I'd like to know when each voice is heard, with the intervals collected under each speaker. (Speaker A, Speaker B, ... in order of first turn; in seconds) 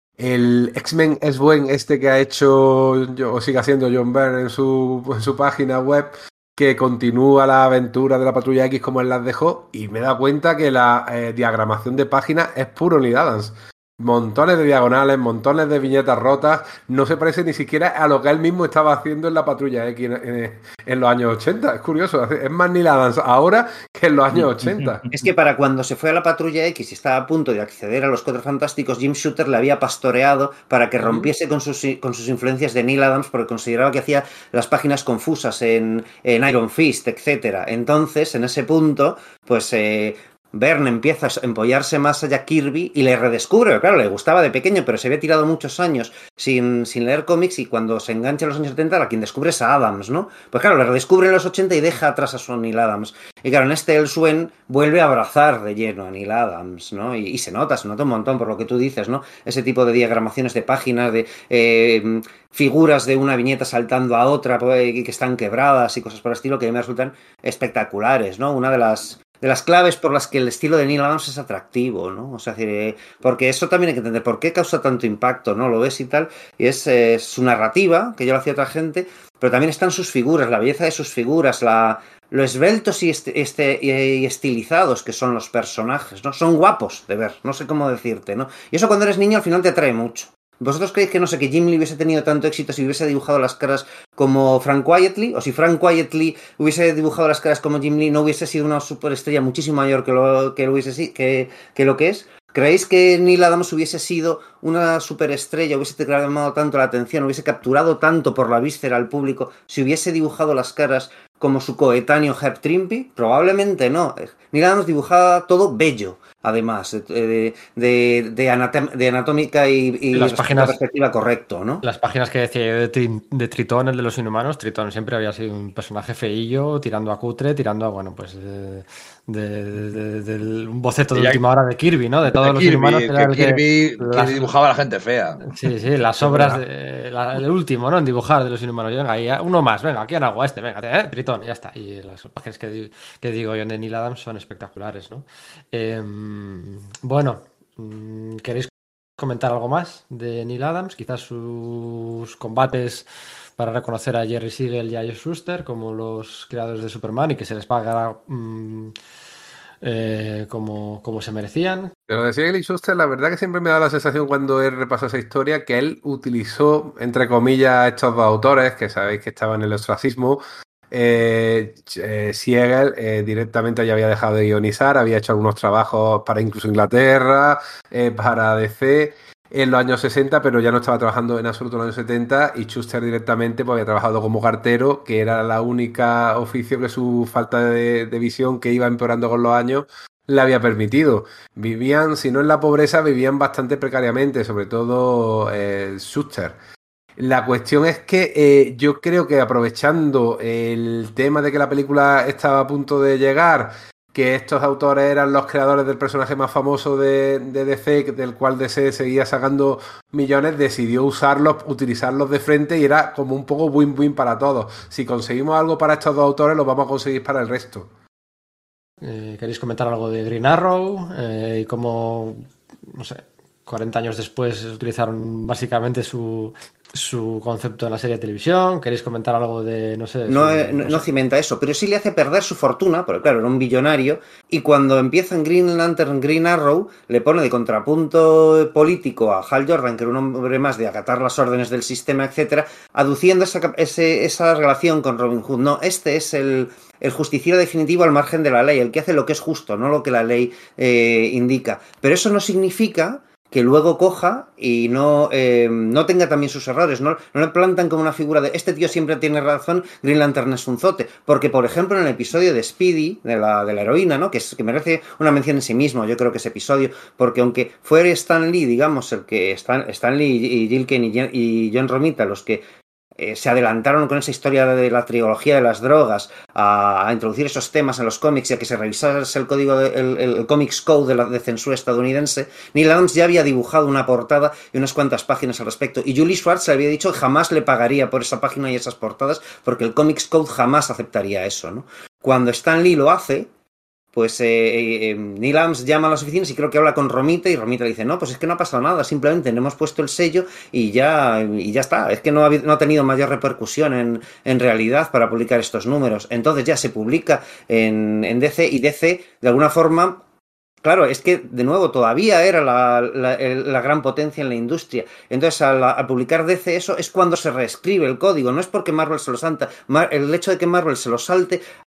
Speaker A: 0.2-25.0, 162.1-196.6, 197.2-217.9
Speaker B: 24.3-25.2, 31.0-31.3, 132.4-135.6, 136.2-136.6
Speaker C: 25.1-121.8, 230.3-293.5, 294.1-310.2, 310.8-321.6
Speaker D: 120.1-120.8, 121.8-134.5, 135.4-153.1, 153.6-158.9, 159.8-161.9, 219.0-231.1